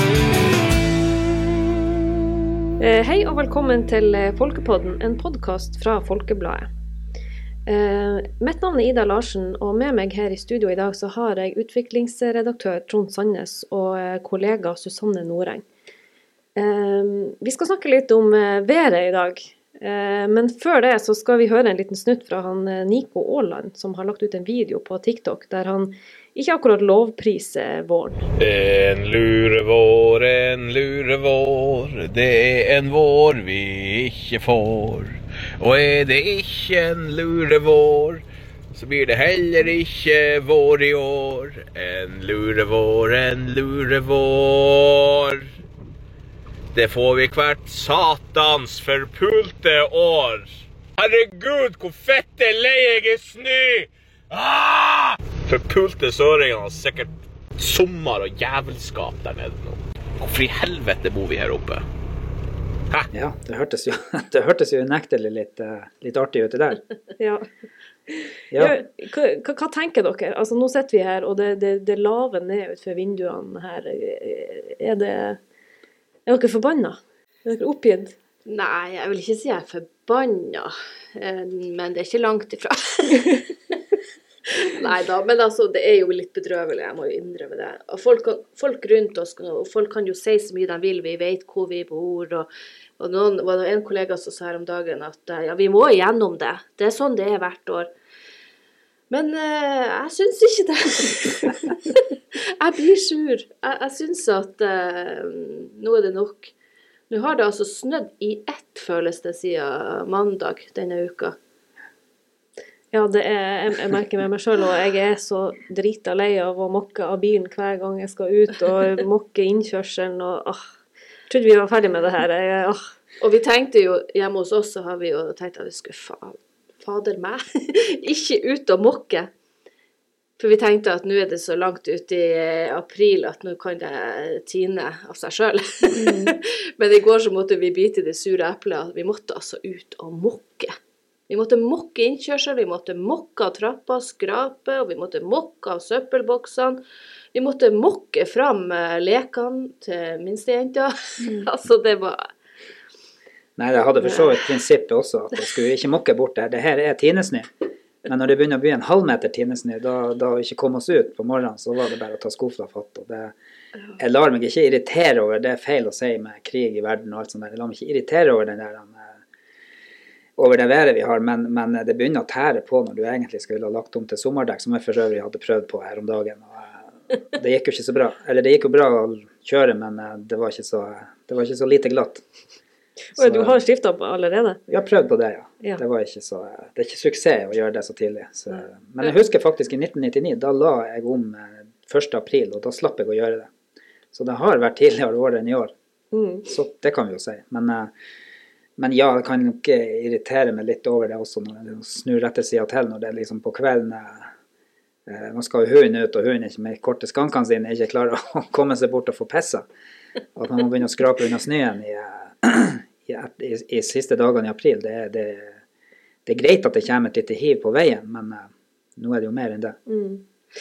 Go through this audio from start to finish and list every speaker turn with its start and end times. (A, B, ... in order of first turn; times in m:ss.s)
0:02.8-0:06.7 A
0:07.6-0:15.6 A
0:16.6-0:28.2 A
0:28.4-0:45.5 B
0:46.7-1:01.8 B
1:03.1-1:06.8 C
1:07.2-1:07.4 A
1:08.1-1:15.4 A
1:08.5-1:08.8 C
1:16.2-1:18.2 A
1:18.4-1:23.5 D
1:24.6-1:37.9 D
1:39.1-1:46.5 D
1:47.1-1:51.3 D
1:52.9-2:00.6 A
2:01.3-2:02.8 A
2:03.2-2:09.3 D
2:10.4-2:20.7 D
2:15.9-2:16.3 A
2:21.3-2:26.8 D
2:27.3-2:32.3 D
2:33.6-2:37.5 C
2:38.0-2:43.3 C
2:44.0-2:49.2 C
2:50.4-3:02.2 C
3:03.1-3:04.6 A
3:03.2-3:03.6 C
3:04.7-3:13.5 C
3:14.1-3:15.7 C
3:16.1-3:16.5 A
3:16.4-3:17.9 C
3:18.8-3:24.3 C
3:25.0-3:29.6 C
3:30.3-3:35.6 C
3:36.2-3:39.8 C
3:39.9-3:40.2 A